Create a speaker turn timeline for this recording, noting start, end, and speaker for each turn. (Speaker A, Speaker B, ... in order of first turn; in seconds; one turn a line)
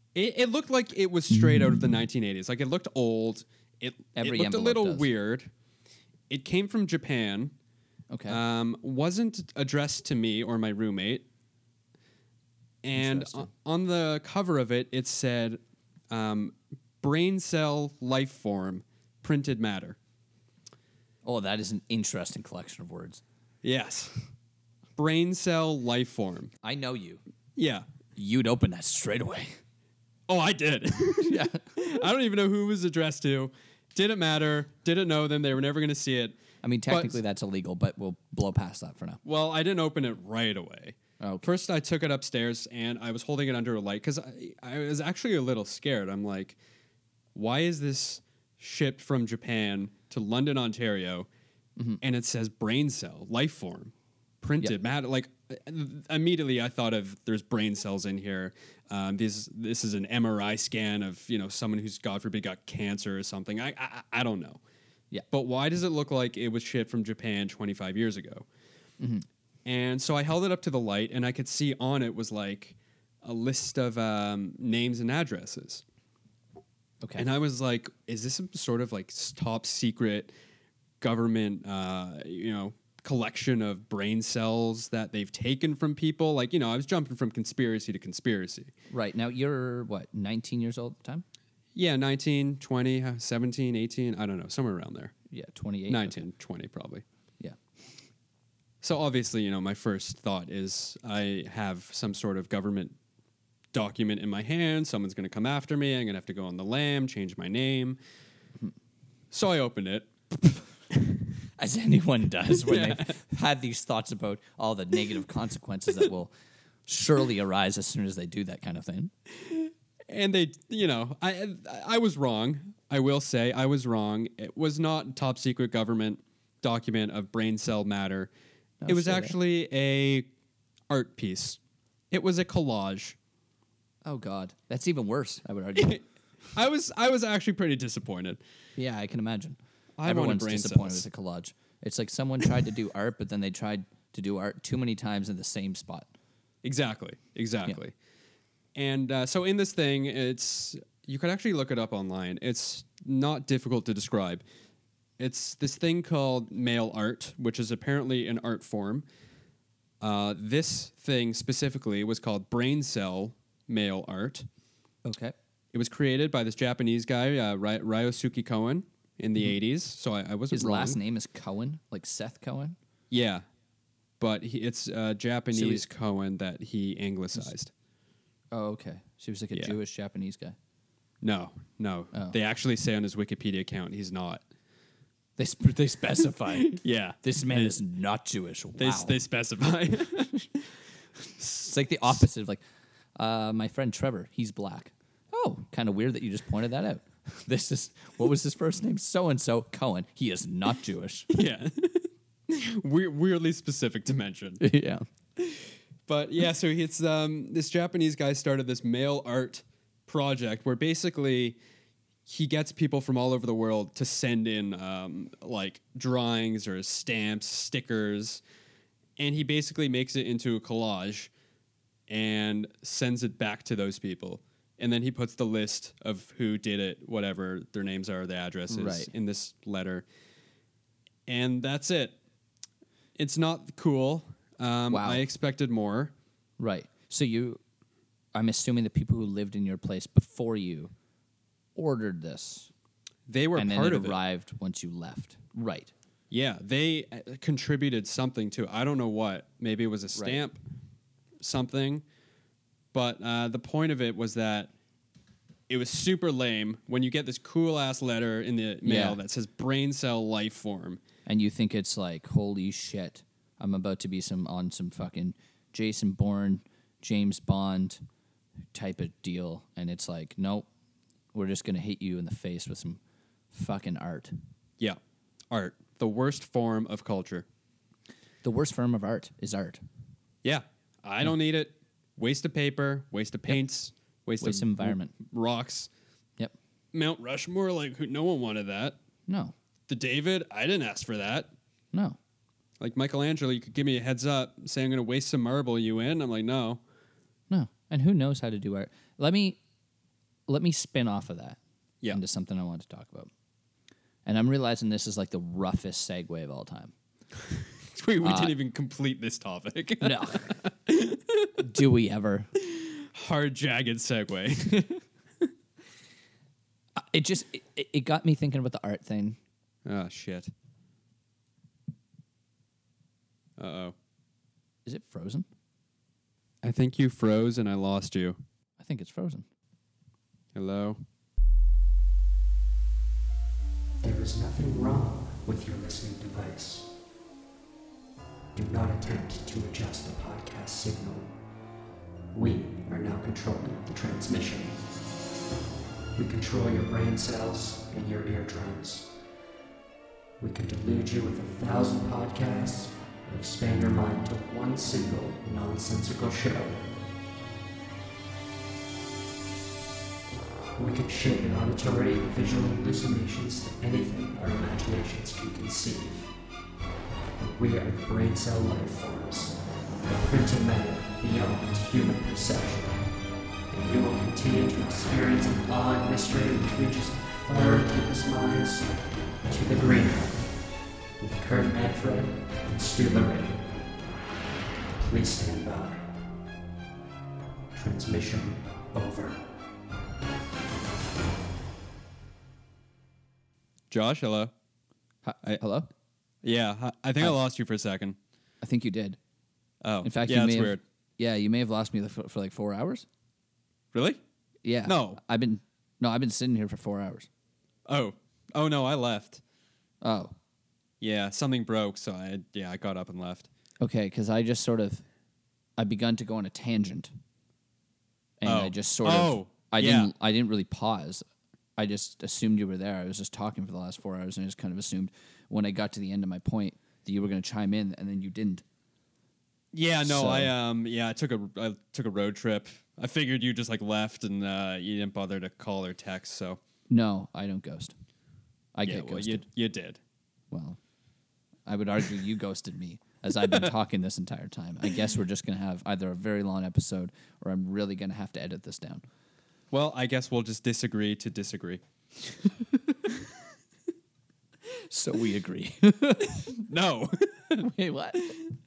Speaker A: 0.1-5.5
Speaker B: 4.2-5.1
Speaker A: 6.3-7.5
Speaker B: 8.1-8.4
Speaker A: 8.3-11.3
Speaker A: 12.8-20.0
Speaker B: 13.0-13.5
Speaker B: 21.2-23.2
Speaker A: 23.6-24.1
Speaker A: 25.0-26.5
Speaker B: 26.6-27.2
Speaker A: 27.6-27.9
Speaker B: 28.2-29.6
Speaker A: 30.3-37.2
Speaker B: 31.2-31.9
Speaker B: 36.6-39.2
Speaker A: 39.2-46.6
Speaker B: 41.2-41.5
Speaker A: 47.4-51.3
Speaker A: 52.0-64.6
Speaker A: 65.3-68.5
Speaker B: 69.0-69.2
Speaker A: 69.7-75.8
Speaker B: 77.0-77.3
Speaker A: 77.2-80.3
Speaker A: 81.0-88.7
Speaker B: 88.9-91.2
Speaker A: 91.8-95.1
Speaker B: 95.3-96.2
Speaker A: 95.9-97.0
Speaker A: 98.8-103.0
Speaker A: 103.7-108.0
Speaker A: 109.3-110.5
Speaker B: 111.6-116.3
Speaker A: 112.5-113.2
Speaker B: 116.9-119.1
Speaker A: 119.5-128.3
Speaker B: 128.8-129.4
Speaker A: 128.9-130.3
Speaker A: 130.9-131.6
Speaker A: 132.1-133.2
Speaker B: 134.0-136.0
Speaker A: 135.8-138.4
Speaker B: 138.8-146.1
Speaker A: 140.0-141.1
Speaker A: 146.6-147.9
Speaker A: 148.8-154.4
Speaker A: 155.2-159.1
Speaker A: 160.0-164.5
Speaker B: 165.1-165.3
Speaker A: 165.7-171.0
Speaker B: 170.5-172.8
Speaker A: 173.1-173.4
Speaker A: 174.2-177.7
Speaker B: 175.5-175.9
Speaker B: 178.5-180.6
Speaker A: 181.2-184.4
Speaker B: 185.4-189.2
Speaker A: 186.5-187.8
Speaker A: 188.8-190.7
Speaker B: 191.4-192.6
Speaker B: 193.2-201.3
Speaker A: 201.3-204.6
Speaker B: 204.6-205.1
Speaker A: 205.4-211.6
Speaker A: 212.3-218.4
Speaker A: 219.2-221.3
Speaker A: 222.1-230.1
Speaker B: 228.7-229.1
Speaker A: 231.3-232.2
Speaker A: 233.2-236.1
Speaker B: 234.9-235.2
Speaker B: 236.6-237.6
Speaker B: 238.3-240.9
Speaker B: 241.8-242.7
Speaker A: 243.3-244.2
Speaker B: 243.6-245.9
Speaker A: 246.3-250.6
Speaker B: 250.2-250.4
Speaker A: 251.4-252.0
Speaker A: 252.9-254.7
Speaker A: 255.7-261.0
Speaker B: 258.8-259.2
Speaker B: 261.3-268.0
Speaker B: 268.7-270.7
Speaker B: 271.3-273.0
Speaker B: 273.5-274.3
Speaker A: 275.5-277.5
Speaker B: 278.4-279.8
Speaker A: 280.4-285.9
Speaker B: 284.4-285.1
Speaker A: 286.9-289.0
Speaker B: 289.3-289.5
Speaker A: 289.9-291.5
Speaker B: 291.9-292.2
Speaker A: 292.8-296.8
Speaker B: 297.5-299.6
Speaker B: 300.5-301.6
Speaker B: 302.1-303.3
Speaker B: 304.2-306.9
Speaker A: 307.9-311.6
Speaker B: 308.2-308.6
Speaker B: 310.0-310.5
Speaker B: 311.6-312.5
Speaker A: 312.6-315.5
Speaker B: 317.0-319.4
Speaker A: 319.9-320.5
Speaker A: 323.6-323.9
Speaker B: 324.9-325.5
Speaker A: 326.6-328.4
Speaker B: 328.8-329.5
Speaker A: 330.6-331.0
Speaker C: 334.0-336.9
Speaker C: 338.6-341.3
Speaker C: 342.3-344.8
Speaker C: 346.2-349.1
Speaker C: 350.4-356.8
Speaker C: 360.8-366.3
Speaker C: 367.4-373.0
Speaker C: 373.7-378.9
Speaker C: 379.5-380.5
Speaker C: 381.2-383.6
Speaker C: 385.0-386.1
Speaker C: 387.7-389.4
Speaker A: 393.9-394.5
Speaker B: 395.2-395.9
Speaker A: 396.4-398.2
Speaker B: 398.6-399.2
Speaker A: 399.8-400.8
Speaker B: 400.0-403.1
Speaker A: 403.9-404.2
Speaker B: 404.6-407.3
Speaker A: 404.9-405.2
Speaker A: 407.9-409.4
Speaker B: 410.0-410.4
Speaker A: 411.0-413.5
Speaker B: 413.8-415.1
Speaker B: 415.8-417.1
Speaker B: 418.4-421.2
Speaker A: 418.4-420.1
Speaker B: 421.8-428.6
Speaker A: 429.7-436.6
Speaker B: 430.0-430.5
Speaker B: 436.9-437.9
Speaker B: 438.8-439.5
Speaker A: 438.9-440.0
Speaker B: 440.5-440.8
Speaker B: 441.7-449.0
Speaker A: 449.7-451.8
Speaker B: 454.7-456.5
Speaker A: 456.3-457.7
Speaker B: 457.6-458.4